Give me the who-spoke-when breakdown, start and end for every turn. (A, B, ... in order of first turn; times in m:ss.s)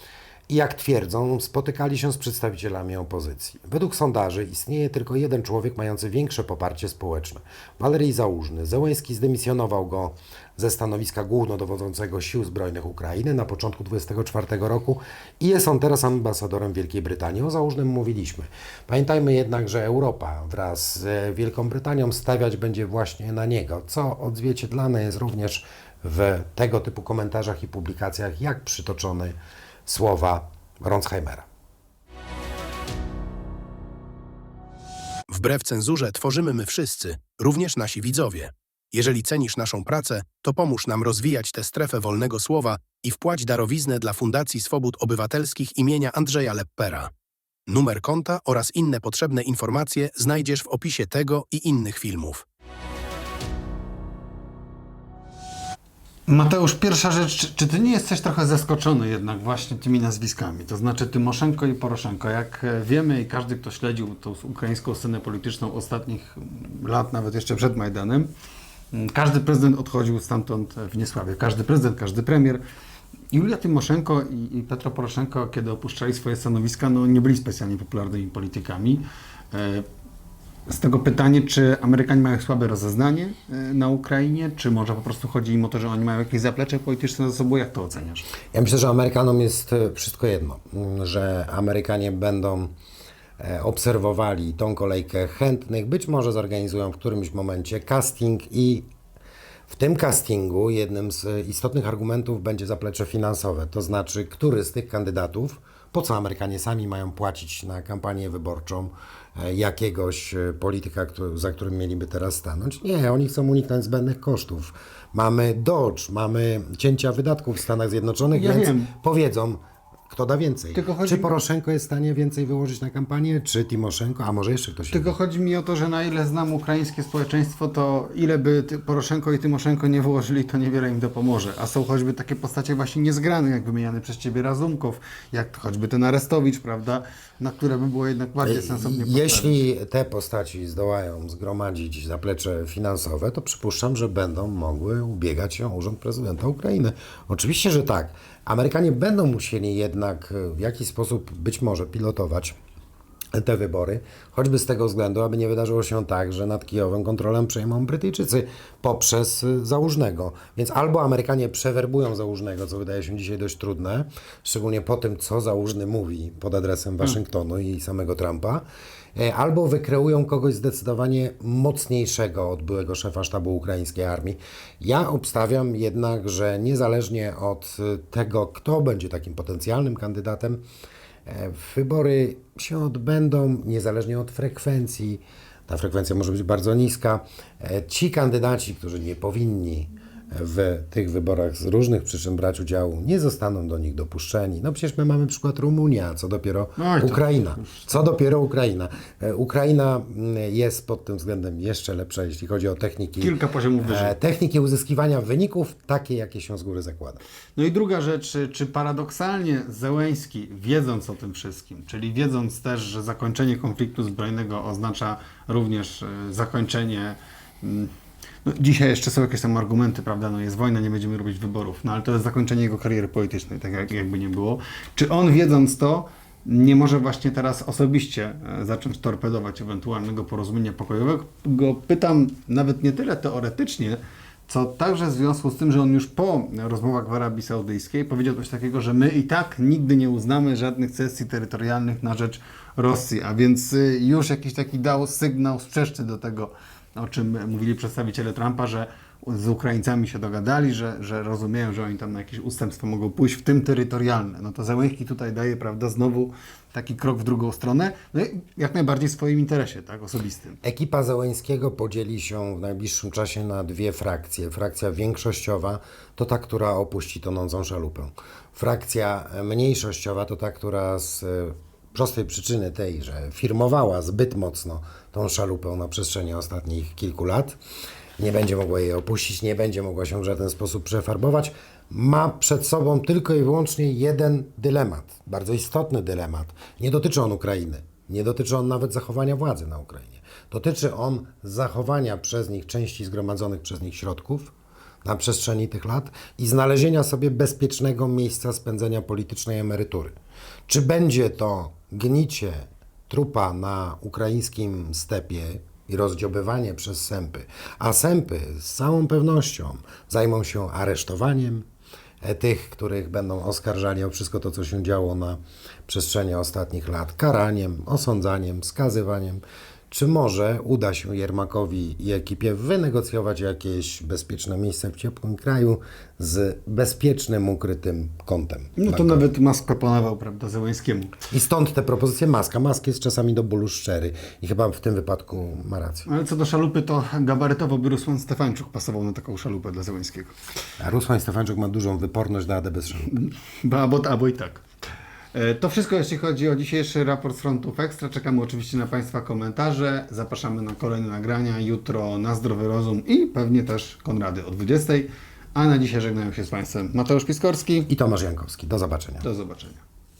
0:00.5-0:31.5 A
0:35.3-0:47.1 B
0:47.7-0:52.4 B
0:56.3-1:08.3 C
1:08.9-1:12.6 C
1:13.3-1:19.9 C
1:20.7-1:28.3 C
1:28.5-1:32.7 A
1:33.4-1:38.9 A
1:39.7-2:05.2 A
1:58.3-1:58.9 C
2:00.8-2:01.3 C
2:04.9-2:19.6 C
2:18.4-2:32.6 A
2:33.3-2:48.6 A
2:49.2-3:00.6 A
3:01.3-3:27.2 A
3:16.8-3:17.8 C
3:23.2-3:24.2 C
3:27.6-3:37.9 C
3:38.4-4:20.6 C
4:20.6-4:37.6 A
4:38.2-4:54.5 A
4:55.0-5:00.2 A
5:00.7-5:11.7 A
5:12.2-5:29.2 A
5:28.8-5:31.2 C
5:31.3-5:36.1 A
5:36.1-5:40.4 C
5:40.8-5:43.2 A
5:43.1-5:44.6 C
5:45.3-5:57.9 C
5:57.9-5:59.3 A
5:59.2-5:59.8 C